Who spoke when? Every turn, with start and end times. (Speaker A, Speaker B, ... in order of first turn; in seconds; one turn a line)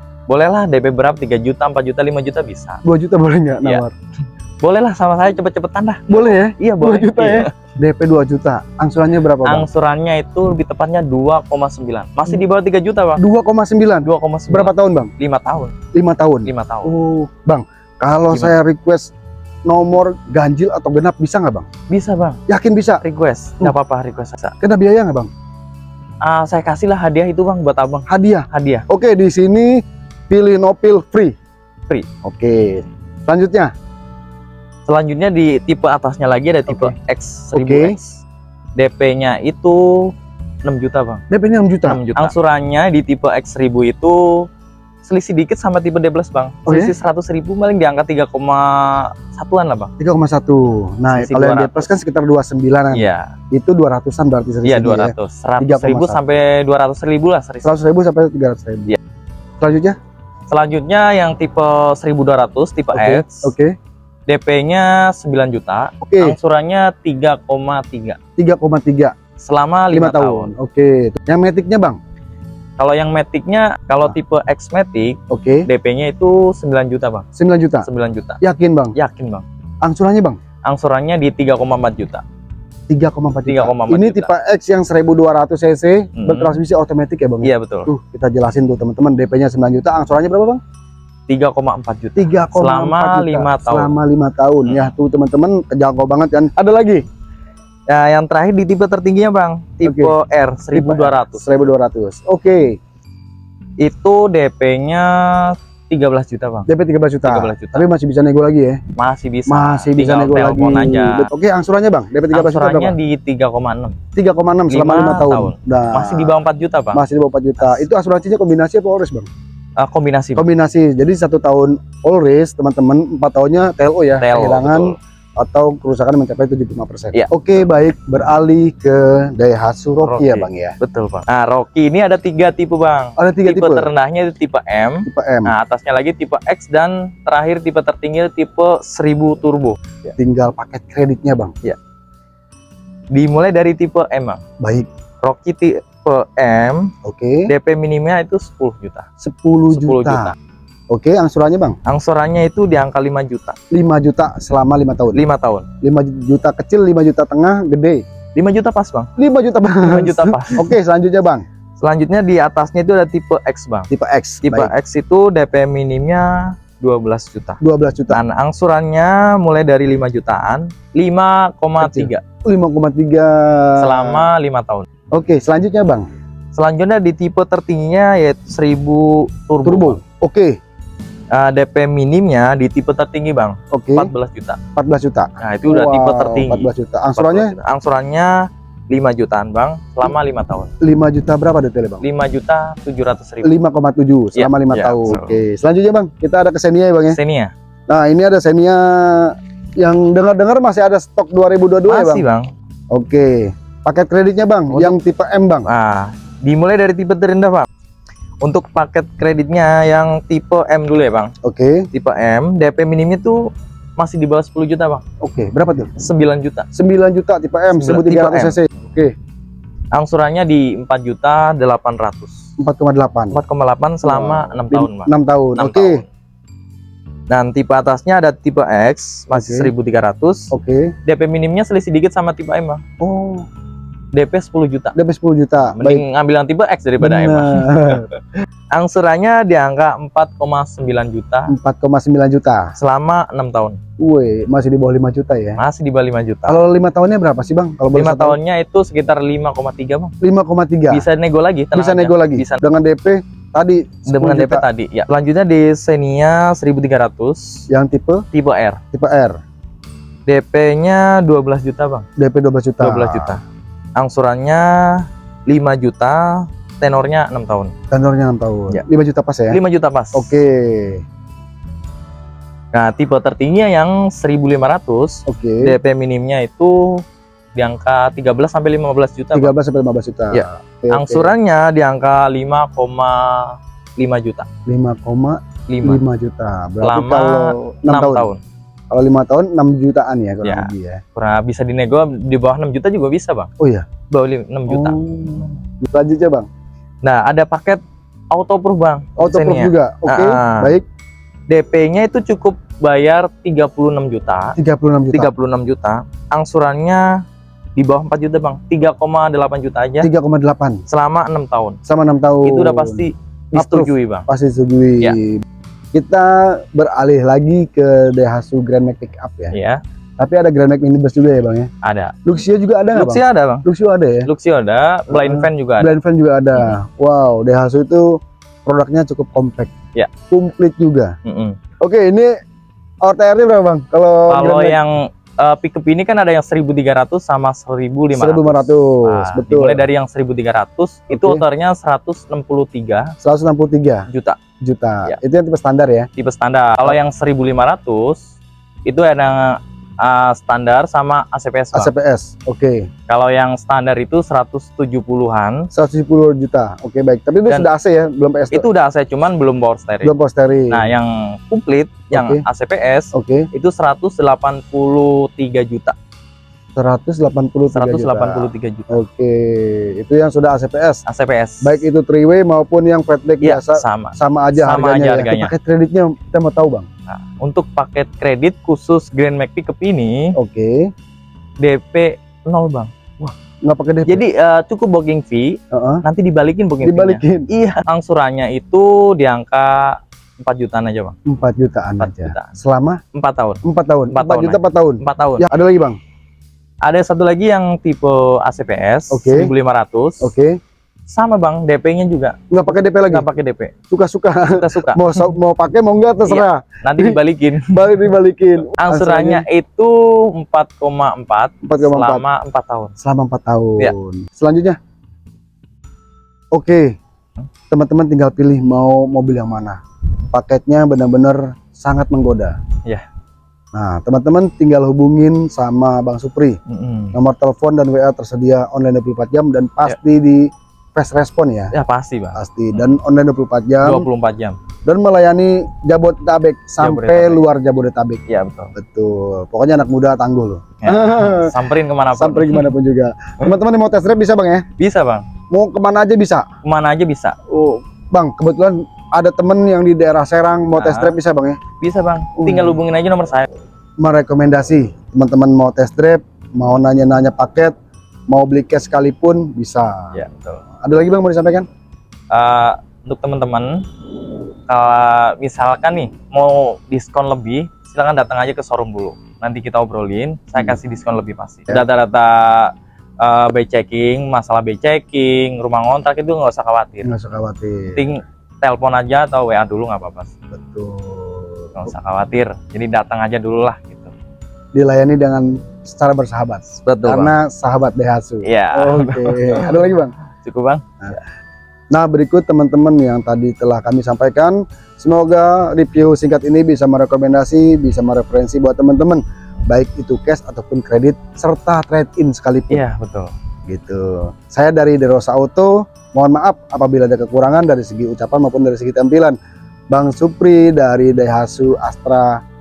Speaker A: 0.3-2.8
Speaker B: 2.8-3.9
Speaker A: 4.6-7.5
Speaker B: 6.1-9.7
Speaker A: 9.4-13.2
Speaker B: 13.2-15.1
Speaker A: 14.0-15.8
Speaker B: 15.9-19.1
Speaker A: 16.5-16.9
Speaker B: 19.7-21.7
Speaker A: 21.9-22.4
Speaker B: 22.5-23.0
Speaker A: 23.0-24.5
Speaker B: 24.6-25.3
Speaker A: 26.2-28.9
Speaker B: 28.1-31.3
Speaker B: 32.2-33.7
Speaker A: 34.9-38.2
Speaker B: 36.7-37.0
Speaker B: 37.5-38.0
Speaker A: 38.8-40.1
Speaker A: 40.6-41.2
Speaker B: 41.3-42.3
Speaker A: 41.9-44.5
Speaker A: 45.0-49.9
Speaker B: 46.7-47.0
Speaker B: 50.0-56.2
Speaker A: 51.1-51.9
Speaker A: 52.9-53.3
Speaker A: 54.6-57.8
Speaker B: 57.6-59.0
Speaker B: 59.6-60.0
Speaker A: 60.5-63.5
Speaker B: 62.9-63.7
Speaker A: 64.3-68.2
Speaker B: 66.0-66.4
Speaker B: 68.4-69.1
Speaker A: 69.4-70.5
Speaker B: 69.9-72.0
Speaker A: 72.8-77.3
Speaker B: 75.3-75.7
Speaker B: 77.4-77.9
Speaker A: 77.8-78.4
Speaker B: 78.4-79.0
Speaker A: 79.0-79.5
Speaker B: 79.8-80.4
Speaker A: 80.7-82.2
Speaker B: 82.9-90.6
Speaker A: 83.5-84.3
Speaker A: 86.2-86.6
Speaker A: 87.4-87.9
Speaker A: 91.3-94.0
Speaker B: 92.2-97.0
Speaker A: 94.7-94.9
Speaker A: 97.9-101.6
Speaker B: 99.8-100.2
Speaker B: 100.7-102.8
Speaker A: 103.8-106.7
Speaker B: 106.7-108.8
Speaker A: 107.2-107.9
Speaker A: 109.0-111.3
Speaker B: 109.5-113.0
Speaker A: 112.3-114.0
Speaker B: 114.2-116.4
Speaker A: 114.7-117.0
Speaker B: 116.9-119.3
Speaker A: 117.6-117.9
Speaker A: 119.8-120.5
Speaker B: 120.4-130.8
Speaker A: 124.2-125.0
Speaker A: 127.1-127.7
Speaker A: 130.0-140.2
Speaker B: 133.2-133.9
Speaker B: 135.1-135.5
Speaker B: 140.2-141.5
Speaker A: 143.1-144.4
Speaker B: 144.6-144.9
Speaker A: 145.2-146.9
Speaker B: 147.0-147.5
Speaker A: 147.5-149.1
Speaker B: 149.2-150.3
Speaker A: 149.7-150.3
Speaker B: 150.9-151.8
Speaker A: 151.9-153.6
Speaker B: 153.7-155.2
Speaker A: 155.1-155.7
Speaker B: 155.8-158.0
Speaker A: 158.3-159.1
Speaker B: 159.2-161.4
Speaker A: 159.8-160.7
Speaker A: 161.8-163.9
Speaker B: 163.9-164.7
Speaker A: 164.4-167.6
Speaker B: 167.6-168.2
Speaker A: 168.1-172.2
Speaker B: 171.8-174.2
Speaker A: 173.8-174.8
Speaker B: 175.1-176.1
Speaker A: 176.5-180.0
Speaker B: 179.6-180.6
Speaker A: 181.3-184.6
Speaker B: 183.7-184.1
Speaker B: 184.8-187.5
Speaker A: 185.4-188.3
Speaker A: 188.9-190.7
Speaker B: 190.8-192.0
Speaker A: 192.0-193.6
Speaker B: 193.4-197.2
Speaker A: 194.3-195.4
Speaker A: 197.1-197.5
Speaker B: 197.9-202.2
Speaker A: 201.9-202.5
Speaker B: 202.9-205.7
Speaker A: 204.7-205.0
Speaker A: 205.7-207.7
Speaker A: 208.4-211.3
Speaker B: 211.4-211.9
Speaker A: 211.9-215.0
Speaker B: 215.2-215.9
Speaker A: 216.0-216.7
Speaker B: 216.7-219.1
Speaker A: 217.7-218.6
Speaker A: 219.9-222.5
Speaker B: 222.6-223.4
Speaker A: 223.3-226.1
Speaker B: 224.0-226.0
Speaker A: 227.3-230.5
Speaker B: 229.3-229.7
Speaker B: 230.5-230.9
Speaker A: 231.1-232.8
Speaker B: 233.0-233.5
Speaker A: 234.1-235.0
Speaker B: 234.9-236.0
Speaker A: 235.6-238.2
Speaker B: 237.0-238.1
Speaker A: 238.7-241.5
Speaker B: 241.5-242.7
Speaker A: 242.8-243.8
Speaker B: 244.0-245.6
Speaker A: 245.6-246.6
Speaker B: 246.5-248.4
Speaker A: 247.9-250.1
Speaker B: 250.2-251.1
Speaker A: 250.9-252.6
Speaker B: 251.7-254.7
Speaker A: 254.1-257.6
Speaker B: 257.7-258.2
Speaker A: 258.3-258.8
Speaker B: 258.9-259.4
Speaker A: 260.3-262.1
Speaker B: 262.2-263.4
Speaker A: 262.8-263.4
Speaker A: 264.0-267.7
Speaker B: 267.9-269.6
Speaker A: 269.5-270.3
Speaker B: 270.1-271.0
Speaker A: 272.7-277.0
Speaker B: 275.3-275.8
Speaker A: 277.6-279.5
Speaker B: 279.3-281.4
Speaker A: 280.3-284.5
Speaker B: 284.7-288.3
Speaker A: 285.7-286.0
Speaker A: 286.8-288.4
Speaker B: 288.9-291.0
Speaker A: 290.4-293.5
Speaker B: 293.6-293.9
Speaker A: 294.1-295.5
Speaker B: 294.7-296.5
Speaker A: 297.0-300.8
Speaker B: 299.2-300.8
Speaker A: 301.5-304.6
Speaker B: 304.6-305.3
Speaker A: 305.1-307.1
Speaker A: 307.8-310.1
Speaker B: 310.0-310.8
Speaker A: 310.9-311.8
Speaker B: 311.9-315.4
Speaker A: 312.4-314.3
Speaker B: 315.9-319.5
Speaker A: 319.5-319.8
Speaker B: 320.2-321.7
Speaker A: 321.8-322.2
Speaker B: 322.2-324.3
Speaker A: 322.9-323.7
Speaker A: 324.3-325.9
Speaker B: 325.1-329.7
Speaker B: 330.3-331.1
Speaker A: 331.2-331.6
Speaker B: 331.8-332.3
Speaker B: 333.0-334.8
Speaker A: 334.3-343.1
Speaker B: 338.1-339.9
Speaker B: 341.1-341.4
Speaker B: 343.2-344.1
Speaker A: 344.1-344.4
Speaker B: 344.6-346.1
Speaker A: 346.2-348.3
Speaker A: 348.9-351.9
Speaker B: 351.7-352.9
Speaker A: 353.1-355.7
Speaker B: 355.7-358.7
Speaker A: 358.5-360.1
Speaker B: 360.0-360.9
Speaker A: 360.7-365.9
Speaker B: 362.1-362.4
Speaker B: 363.1-363.5
Speaker B: 366.8-371.0
Speaker A: 367.7-369.0
Speaker A: 371.1-371.9
Speaker B: 371.6-376.9
Speaker A: 373.4-375.5
Speaker A: 377.1-380.4
Speaker B: 380.4-380.9
Speaker A: 381.6-383.3
Speaker B: 383.3-384.2
Speaker A: 384.1-391.1
Speaker B: 385.7-386.0
Speaker B: 386.8-387.5
Speaker B: 391.3-393.0
Speaker A: 392.0-392.6
Speaker A: 393.1-395.5
Speaker B: 393.6-396.0
Speaker A: 396.8-400.3
Speaker B: 399.1-399.5
Speaker B: 400.2-400.6
Speaker A: 401.1-403.7
Speaker B: 402.5-403.3
Speaker B: 403.9-409.5
Speaker A: 404.5-405.1
Speaker A: 406.2-408.1
Speaker A: 408.8-412.9
Speaker B: 411.6-412.2
Speaker B: 413.0-414.8
Speaker B: 416.5-417.0
Speaker B: 417.7-422.6
Speaker B: 423.7-426.6
Speaker A: 426.7-427.2
Speaker B: 427.1-431.7
Speaker A: 431.7-432.9
Speaker B: 432.4-434.1
Speaker A: 433.8-434.6
Speaker B: 434.9-438.2
Speaker A: 436.8-437.4
Speaker A: 438.3-438.7
Speaker B: 438.8-441.6
Speaker A: 440.8-442.7
Speaker B: 442.1-444.6
Speaker A: 444.8-445.3
Speaker B: 445.5-446.5
Speaker A: 446.6-447.4
Speaker B: 447.5-451.6
Speaker A: 450.8-451.2
Speaker A: 451.8-453.5
Speaker B: 452.4-452.8
Speaker B: 454.0-457.7
Speaker B: 458.3-460.1
Speaker A: 460.1-460.6
Speaker B: 460.8-461.7
Speaker A: 462.3-463.8
Speaker A: 464.7-477.1
Speaker B: 477.1-478.1
Speaker A: 477.9-480.3
Speaker B: 480.5-481.9
Speaker A: 481.8-484.1
Speaker B: 484.7-490.1
Speaker A: 486.8-487.3
Speaker A: 488.4-489.9
Speaker A: 490.4-491.2
Speaker B: 491.9-502.8
Speaker A: 502.7-503.3
Speaker B: 503.7-509.4
Speaker B: 509.9-512.4